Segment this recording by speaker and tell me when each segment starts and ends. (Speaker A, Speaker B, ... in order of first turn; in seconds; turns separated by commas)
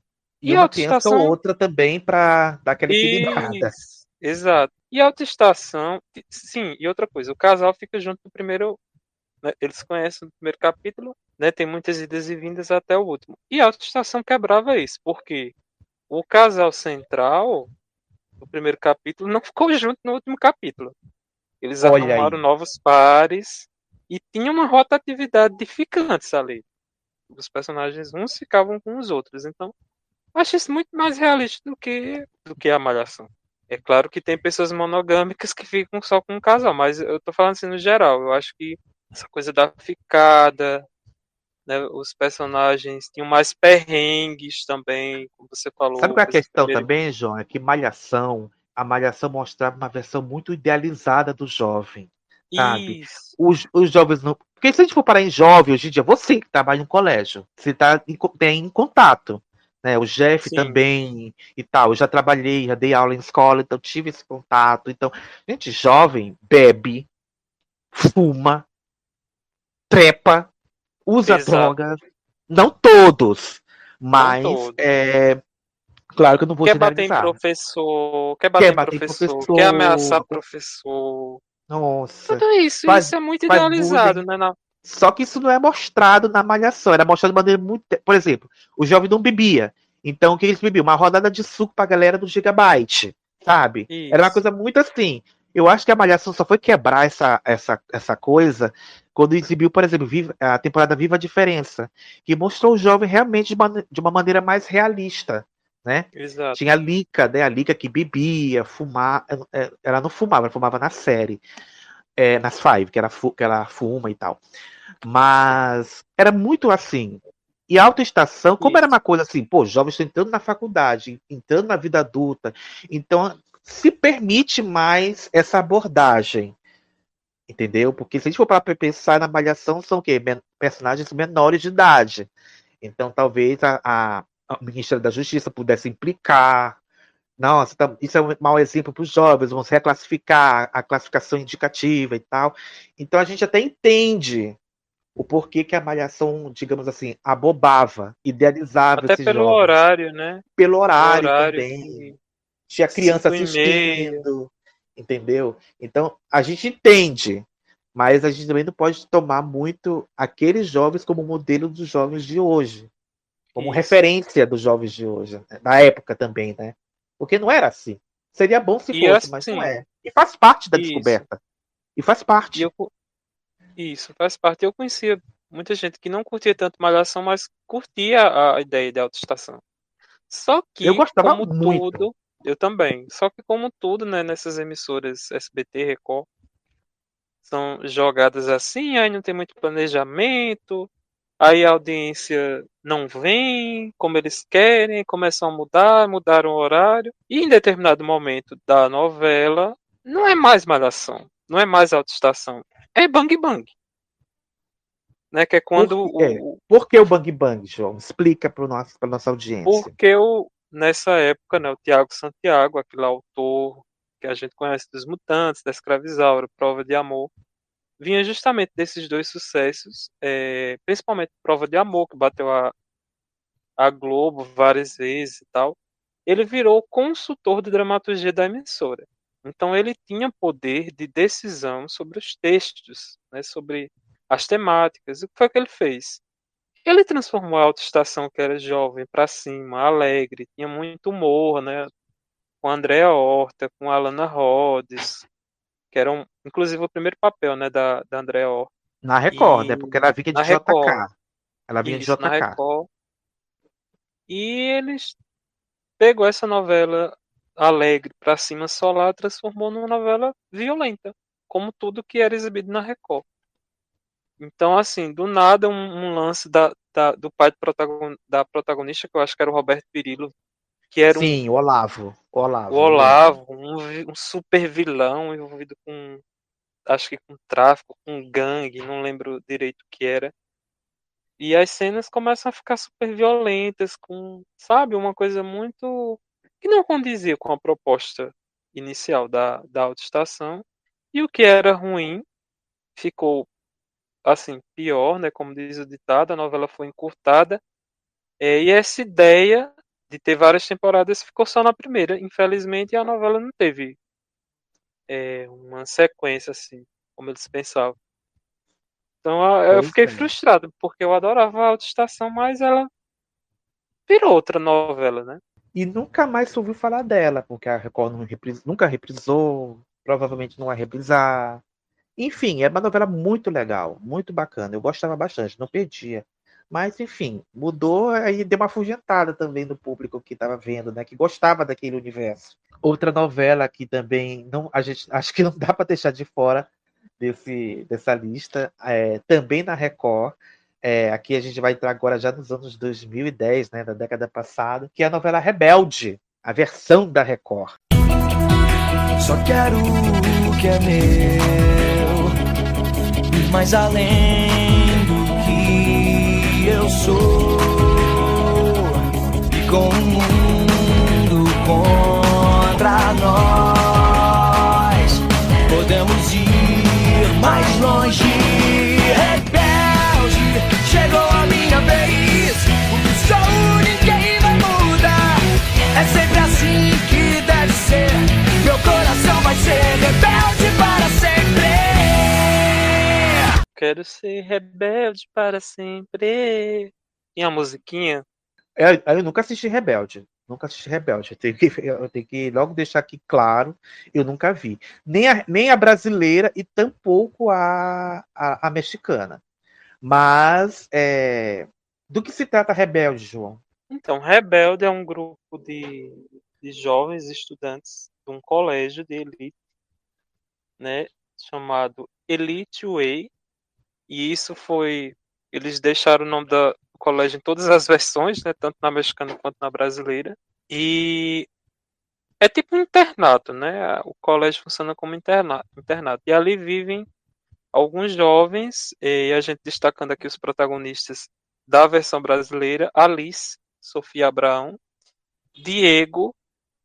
Speaker A: 0.4-3.7, Speaker B: 0.5-1.4, Speaker B: 2.9-8.8, Speaker B: 9.4-15.5, Speaker B: 16.1-17.7, Speaker B: 18.4-20.9, Speaker B: 21.6-26.6, Speaker A: 21.8-22.4, Speaker B: 27.3-29.7, Speaker B: 30.3-40.9, Speaker B: 41.7-46.9, Speaker A: 46.0-67.1, Speaker B: 52.5-53.4, Speaker B: 60.4-60.8, Speaker A: 67.9-68.6, Speaker A: 69.9-70.5, Speaker A: 71.0-75.4, Speaker B: 71.3-71.8, Speaker B: 74.2-74.8, Speaker A: 76.1-77.4, Speaker B: 76.6-81.4, Speaker A: 78.6-80.4, Speaker A: 81.7-84.2, Speaker B: 82.3-84.5, Speaker A: 84.8-111.4, Speaker B: 93.9-94.4, Speaker B: 106.1-106.6, Speaker A: 112.2-114.4, Speaker A: 115.0-126.5, Speaker B: 118.6-118.9, Speaker A: 127.5-132.3, Speaker A: 132.8-136.8, Speaker A: 137.4-144.6, Speaker A: 145.2-149.8, Speaker B: 149.0-150.4, Speaker A: 150.6-152.1, Speaker B: 150.9-152.2, Speaker A: 152.7-162.9, Speaker B: 152.9-154.2, Speaker B: 163.5-163.9, Speaker A: 163.6-171.4, Speaker B: 168.9-169.7, Speaker B: 170.7-171.2, Speaker A: 171.9-172.7, Speaker B: 172.5-172.9, Speaker B: 173.8-179.6, Speaker B: 180.3-186.3, Speaker A: 180.8-182.0, Speaker B: 187.4-190.9, Speaker B: 191.4-203.7, Speaker B: 205.3-206.6, Speaker A: 205.8-209.9, Speaker B: 209.7-217.3, Speaker B: 218.0-222.7, Speaker B: 223.8-236.2, Speaker B: 236.8-241.9, Speaker B: 242.6-245.2, Speaker B: 245.9-248.7, Speaker A: 249.0-251.1, Speaker B: 249.3-251.0, Speaker A: 251.7-252.6, Speaker B: 251.8-252.9, Speaker B: 254.3-255.2, Speaker B: 256.0-263.2, Speaker B: 264.4-270.3, Speaker B: 270.9-271.4, Speaker A: 271.1-273.2, Speaker B: 272.7-276.2, Speaker B: 276.9-280.3, Speaker B: 281.4-292.2, Speaker B: 292.9-293.5, Speaker B: 294.2-297.6, Speaker B: 298.4-303.9, Speaker B: 305.1-307.9, Speaker B: 309.2-312.9, Speaker A: 309.7-310.3, Speaker B: 314.1-315.4, Speaker A: 315.7-321.6, Speaker A: 322.2-336.7, Speaker A: 337.2-347.7, Speaker C: 349.2-352.2, Speaker C: 353.3-358.9, Speaker C: 359.5-375.4, Speaker C: 375.9-382.4, Speaker B: 383.7-388.2, Speaker A: 388.8-399.4, Speaker A: 400.0-403.6, Speaker B: 403.9-409.5, Speaker B: 410.8-413.3, Speaker B: 414.1-421.5, Speaker B: 422.4-427.1, Speaker B: 427.7-434.8, Speaker B: 435.6-436.3